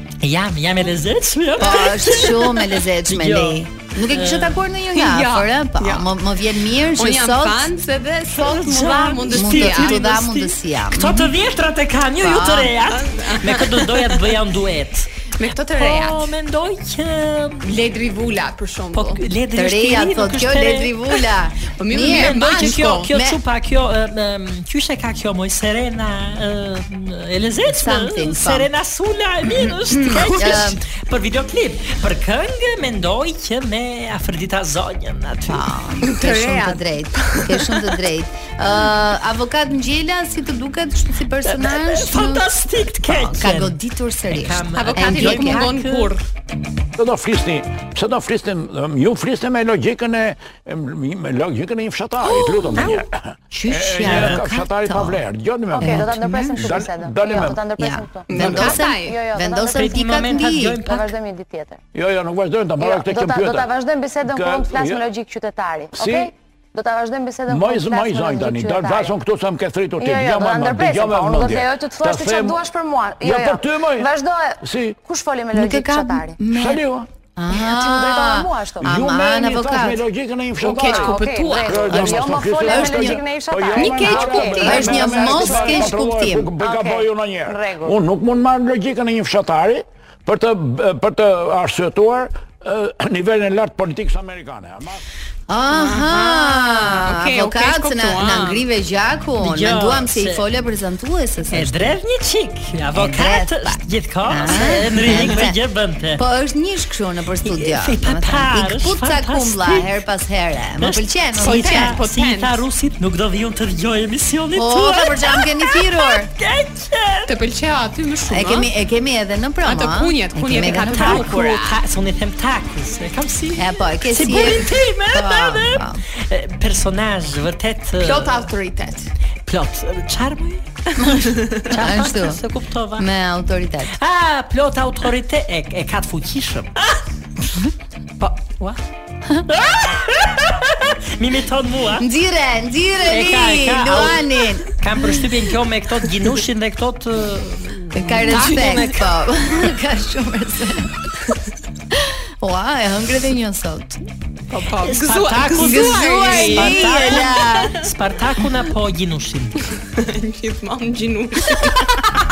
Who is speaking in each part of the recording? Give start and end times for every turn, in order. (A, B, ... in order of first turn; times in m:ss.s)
0:00.2-0:04.6 A
0:01.6-0:07.7 B
0:04.9-0:06.1 C
0:07.0-0:10.1 C
0:08.4-0:17.7 A
0:09.3-0:11.3 B
0:12.2-0:12.7 B
0:12.9-0:14.4 C
0:15.4-0:16.3 C
0:17.6-0:19.2 C
0:18.9-0:21.2 A
0:19.6-0:23.4 B
0:21.8-0:23.1 C
0:21.9-0:35.6 A
0:27.7-0:28.7 B
0:29.4-0:30.8 B
0:35.5-0:45.8 B
0:36.0-0:37.7 C
0:41.4-0:46.1 A
0:44.8-0:46.2 C
0:47.0-0:57.7 D
0:52.5-0:53.0 B
0:53.5-0:55.2 B
0:54.0-0:54.4 A
0:55.8-0:56.7 B
0:55.8-0:58.4 E
0:57.4-1:00.8 B
0:58.3-0:58.8 D
0:58.3-0:59.2 C
0:58.9-1:01.8 E
0:59.7-1:01.2 A
1:01.9-1:03.7 D
1:02.8-1:09.1 E
1:04.2-1:05.1 D
1:05.9-1:06.3 D
1:07.5-1:15.0 D
1:10.0-1:16.4 E
1:15.5-1:16.8 B
1:16.4-1:17.1 D
1:17.4-1:20.0 B
1:17.6-1:19.2 E
1:18.8-1:35.0 D
1:20.6-1:26.0 E
1:20.8-1:21.8 C
1:21.9-1:23.2 B
1:23.7-1:25.1 C
1:24.5-1:26.5 B
1:26.6-1:28.0 E
1:35.5-1:42.0 B
1:35.7-1:38.6 C
1:39.4-1:40.4 A
1:41.5-1:46.2 A
1:42.9-1:45.6 B
1:46.2-1:52.0 B
1:47.4-1:49.9 A
1:50.8-1:57.4 A
1:51.4-1:52.6 C
1:54.6-1:56.3 B
1:57.3-1:58.7 C
1:58.3-2:01.4 B
1:59.6-2:01.8 C
2:00.6-2:08.5 A
2:03.5-2:06.0 B
2:08.0-2:09.1 C
2:09.5-2:13.1 A
2:11.7-2:12.4 B
2:13.0-2:14.0 B
2:14.0-2:16.8 A
2:18.2-2:18.8 A
2:19.3-2:22.1 A
2:22.0-2:24.7 B
2:23.0-2:29.1 A
2:27.9-2:30.9 B
2:31.9-2:34.0 B
2:34.5-2:37.5 C
2:34.8-2:39.7 A
2:35.6-2:37.8 B
2:39.8-2:42.1 C